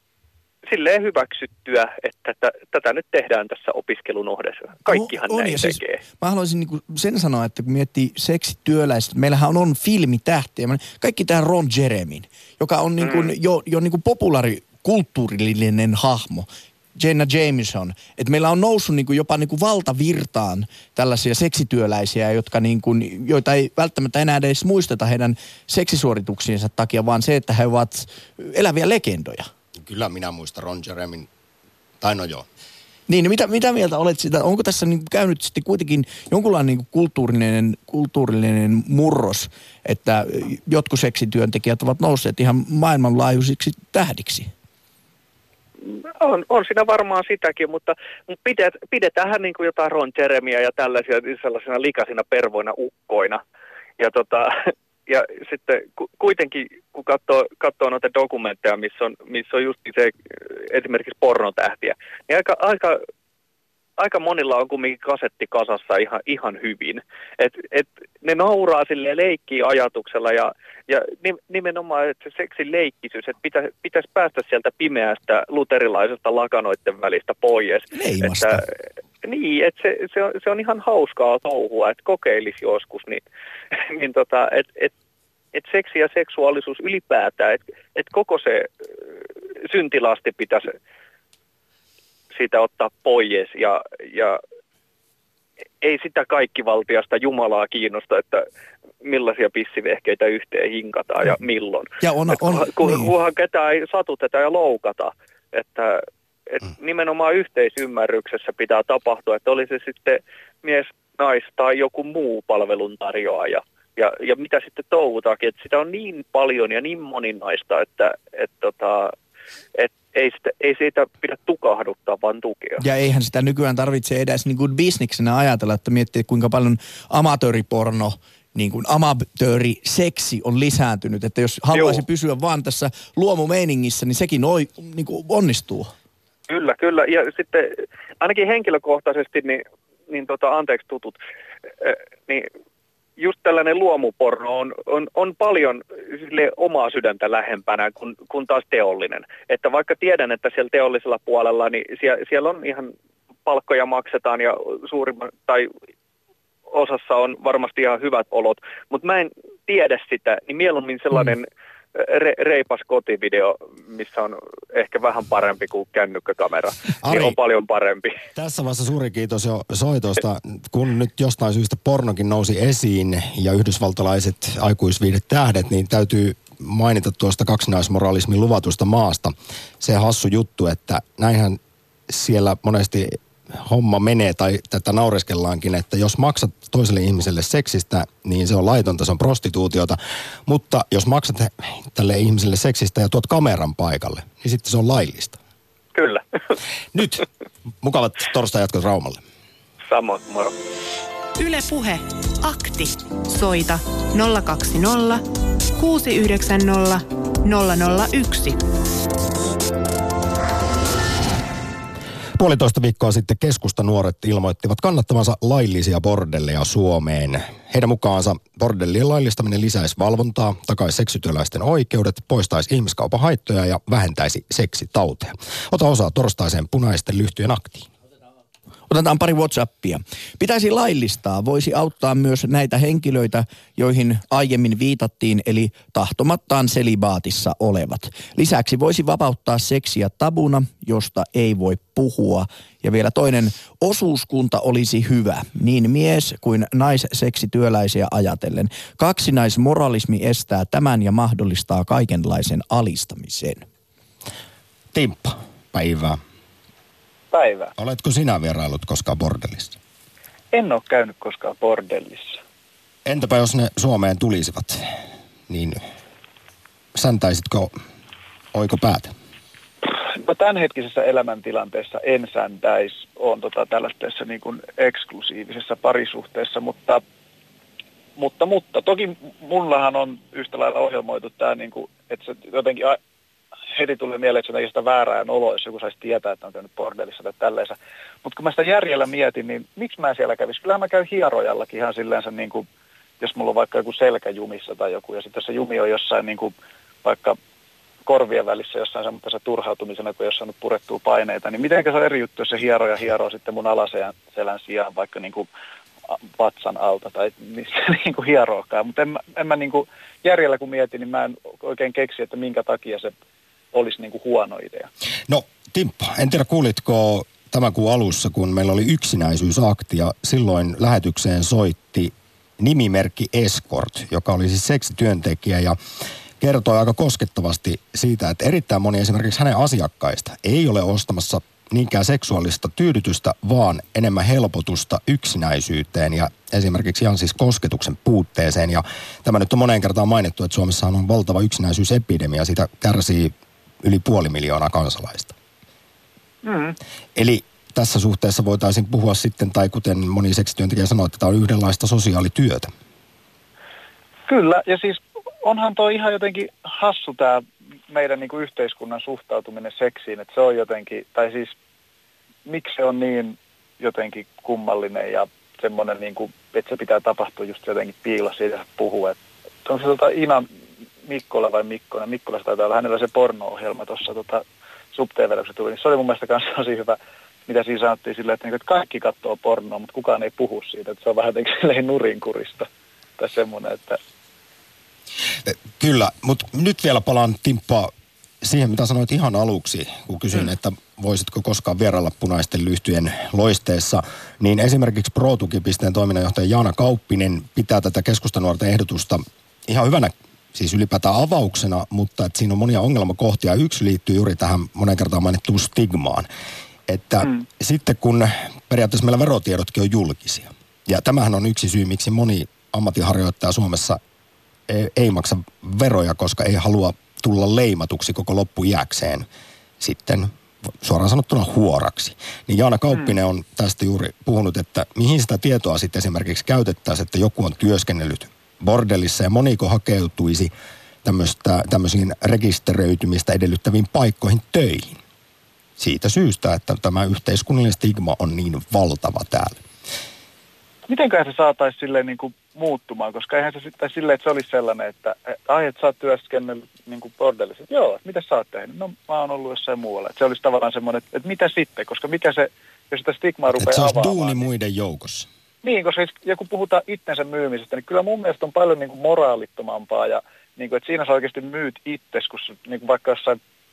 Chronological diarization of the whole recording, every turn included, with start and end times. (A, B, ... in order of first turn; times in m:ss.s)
0:00.7-0:06.0 A
0:04.8-0:29.5 B
0:13.0-0:13.3 A
0:29.8-0:31.3 C
0:32.0-0:32.5 C
0:33.1-0:44.5 B
0:45.8-0:53.4 A
0:54.0-1:03.0 A
1:04.0-1:18.6 A
1:17.9-1:18.6 B
1:19.2-1:24.9 A
1:25.5-1:28.7 A
1:29.6-1:30.7 A
1:32.3-1:34.4 A
1:35.8-1:38.4 A
1:39.0-1:59.1 A
1:42.0-1:43.1 B
1:59.7-2:02.8 A
2:02.8-2:15.9 B
2:11.7-2:12.0 A
2:16.5-2:21.2 A
2:21.8-2:22.5 A
2:23.2-2:32.9 A
2:33.4-2:35.7 A
2:36.7-2:48.2 A
2:47.0-2:47.4 C
2:48.3-3:15.4 C
3:15.9-3:16.2 A
3:16.9-3:17.2 C
3:17.8-3:19.2 C
3:19.9-3:20.5 A
3:21.4-3:25.2 D
3:25.8-3:28.6 D
3:32.4-3:47.9 C
3:48.9-4:13.6 B
4:14.9-4:16.2 C
4:17.3-4:17.7 E
4:17.8-4:19.8 C
4:20.5-4:22.4 E
4:23.0-4:24.9 C
4:25.5-4:25.8 C
4:26.9-4:27.7 C
4:28.5-4:29.1 C
4:30.1-4:37.0 E
4:38.2-4:43.0 E
4:43.7-4:52.7 E
4:53.2-4:57.4 E
4:58.0-5:05.5 E
5:06.1-5:13.1 E
5:13.7-5:14.9 E
5:15.3-5:25.8 C
5:26.4-5:45.3 C
5:46.4-5:46.8 E
5:47.2-5:52.7 C
5:54.3-6:01.5 E
6:02.4-6:10.5 E
6:11.0-6:24.0 E
6:25.4-6:27.9 C
6:28.4-6:46.3 C
6:46.9-6:54.0 C
6:54.7-6:59.2 C
6:59.8-7:00.3 C
7:00.8-7:10.5 C
7:11.0-7:15.0 C
7:15.8-7:19.6 C
7:20.9-7:34.4 E
7:33.6-7:35.3 C
7:35.6-7:43.4 E